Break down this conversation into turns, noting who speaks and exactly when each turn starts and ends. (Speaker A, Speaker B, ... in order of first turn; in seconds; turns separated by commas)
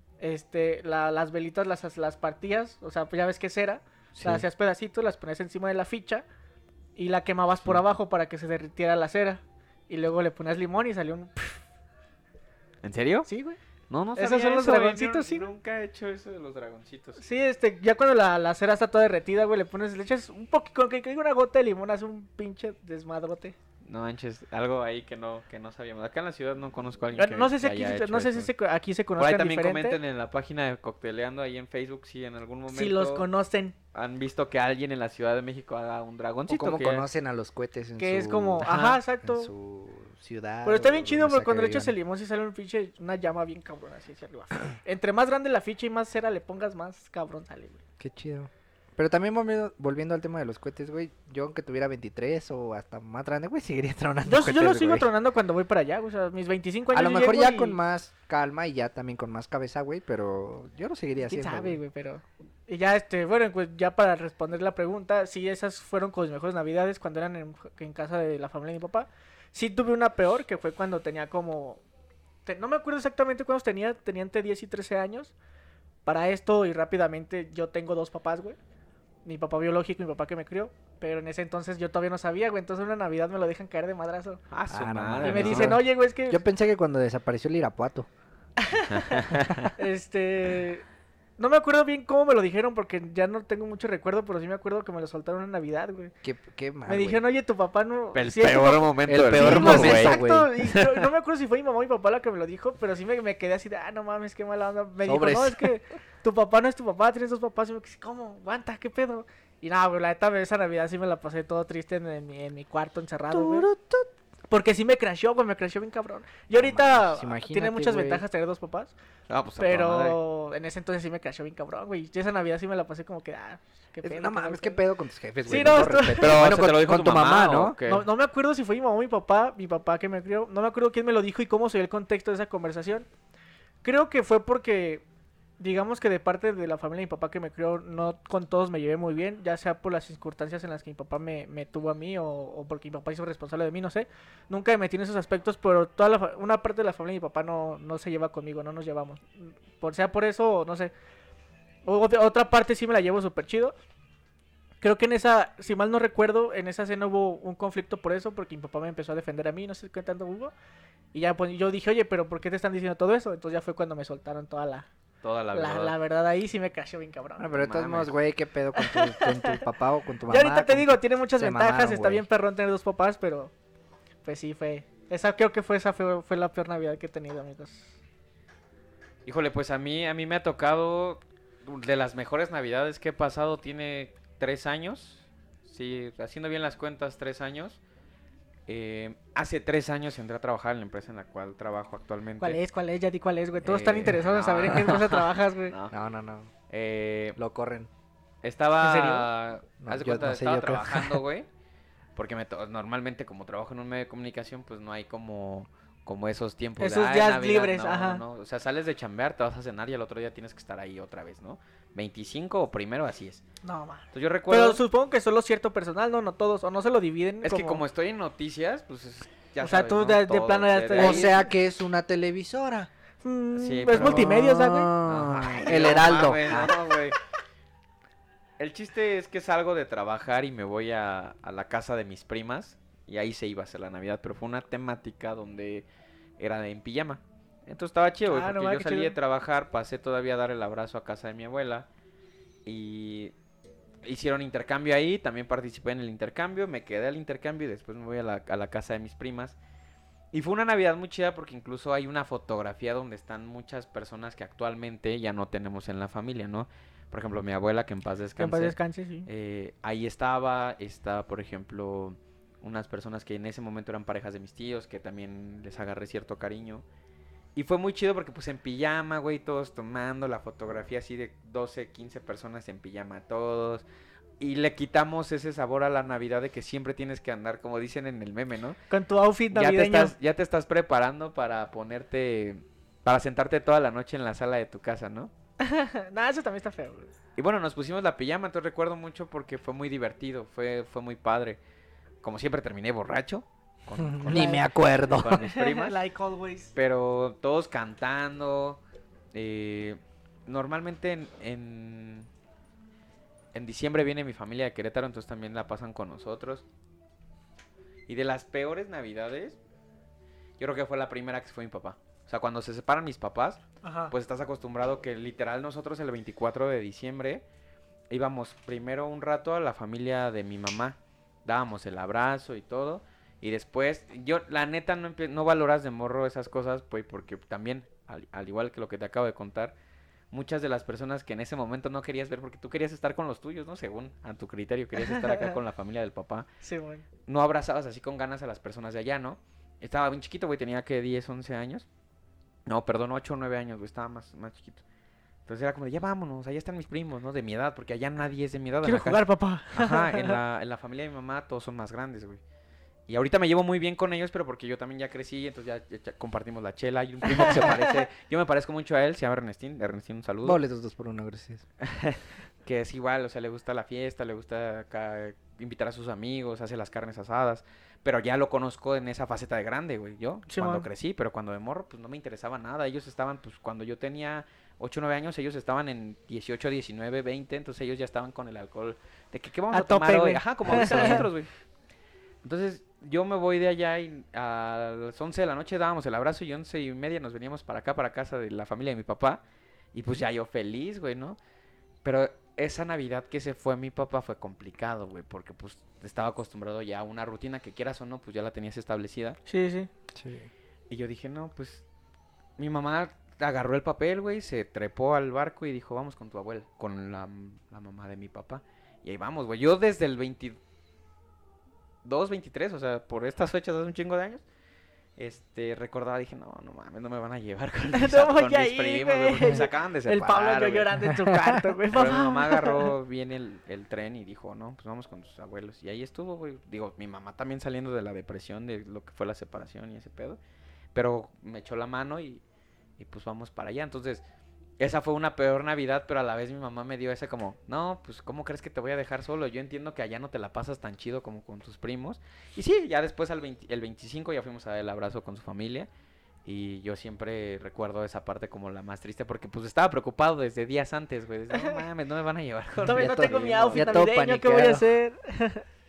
Speaker A: 0.2-6.2, Speaker B: 4.2-4.4, Speaker A: 7.0-11.6, Speaker B: 12.8-13.3, Speaker A: 13.3-13.6, Speaker B: 13.9-17.2, Speaker A: 14.2-15.5, Speaker A: 17.2-23.6, Speaker B: 23.9-28.5, Speaker A: 27.2-30.0, Speaker B: 29.2-33.3, Speaker A: 32.7-33.8, Speaker B: 33.9-37.1, Speaker C: 36.5-42.0, Speaker A: 38.0-39.5, Speaker B: 38.6-39.0, Speaker A: 40.6-47.8, Speaker C: 48.0-55.1, Speaker A: 54.3-57.8, Speaker C: 56.9-61.8, Speaker A: 61.2-71.8, Speaker A: 72.5-75.3, Speaker A: 76.0-78.6, Speaker A: 79.2-84.4, Speaker B: 84.5-85.8, Speaker C: 84.7-88.1, Speaker A: 85.2-86.4, Speaker A: 88.6-89.2, Speaker B: 88.9-89.7, Speaker A: 89.8-90.8, Speaker A: 91.4-96.1, Speaker C: 96.2-97.2, Speaker A: 96.9-113.7, Speaker B: 98.1-101.1, Speaker C: 99.1-100.5, Speaker C: 105.0-105.7, Speaker C: 113.3-114.1, Speaker A: 114.5-118.9, Speaker C: 116.5-118.2, Speaker B: 119.3-120.2, Speaker A: 119.6-124.8, Speaker C: 124.0-127.8, Speaker A: 125.5-126.4, Speaker B: 125.5-128.1, Speaker A: 127.9-133.1, Speaker A: 133.8-135.0, Speaker A: 135.6-150.9, Speaker A: 151.8-153.8, Speaker A: 154.8-160.5, Speaker A: 161.1-164.9, Speaker B: 165.2-165.9, Speaker A: 165.5-167.5, Speaker C: 167.4-172.2, Speaker B: 167.5-168.1, Speaker A: 168.8-169.6, Speaker A: 170.3-173.5, Speaker A: 174.2-177.9, Speaker B: 179.2-187.8, Speaker B: 188.7-192.6, Speaker A: 192.4-195.7, Speaker B: 193.6-195.9, Speaker C: 195.9-196.5, Speaker B: 196.7-197.4, Speaker C: 197.4-197.9, Speaker B: 198.4-201.5, Speaker A: 198.8-199.3, Speaker C: 199.8-201.2, Speaker B: 202.2-213.4, Speaker A: 206.8-208.2, Speaker A: 213.6-217.8, Speaker B: 214.1-214.8, Speaker B: 217.4-221.3, Speaker A: 219.6-221.4, Speaker C: 220.9-222.9, Speaker A: 223.2-224.9, Speaker B: 223.6-224.3, Speaker C: 223.9-226.8, Speaker B: 225.0-227.2, Speaker B: 228.6-235.9, Speaker B: 236.4-241.9, Speaker A: 238.3-239.2, Speaker B: 242.7-243.3, Speaker B: 244.0-249.6, Speaker B: 250.3-266.8, Speaker A: 258.4-259.3, Speaker B: 267.6-273.9, Speaker B: 274.4-278.8, Speaker A: 278.9-280.1, Speaker B: 279.5-285.3, Speaker A: 285.6-287.1, Speaker B: 287.4-291.6, Speaker B: 292.2-296.0, Speaker C: 294.0-295.4, Speaker A: 294.3-294.6, Speaker A: 295.3-296.7, Speaker B: 296.8-298.8, Speaker B: 299.3-302.3, Speaker B: 303.5-306.6, Speaker B: 308.1-309.6, Speaker B: 310.6-317.4, Speaker A: 313.8-314.1, Speaker B: 318.1-329.8, Speaker B: 330.3-336.5, Speaker A: 335.0-335.5, Speaker A: 336.6-337.1, Speaker B: 337.3-341.9, Speaker B: 342.7-344.8, Speaker B: 345.5-352.4, Speaker A: 348.8-350.4, Speaker B: 353.1-360.6, Speaker A: 357.3-357.9, Speaker C: 360.4-361.6, Speaker B: 361.8-381.5, Speaker A: 370.5-370.9, Speaker A: 379.7-381.3, Speaker B: 382.4-389.4, Speaker B: 389.9-391.4, Speaker B: 392.0-399.4, Speaker A: 399.5-399.9, Speaker C: 400.1-400.5, Speaker B: 400.9-401.8, Speaker B: 402.6-410.6, Speaker B: 412.1-414.4, Speaker B: 415.2-421.0, Speaker A: 417.9-422.9, Speaker C: 421.3-421.6, Speaker B: 421.9-430.4, Speaker B: 430.9-432.4, Speaker B: 433.0-434.2, Speaker B: 434.8-445.9, Speaker B: 446.4-454.0, Speaker A: 451.5-451.8, Speaker A: 452.9-455.6, Speaker C: 452.9-454.9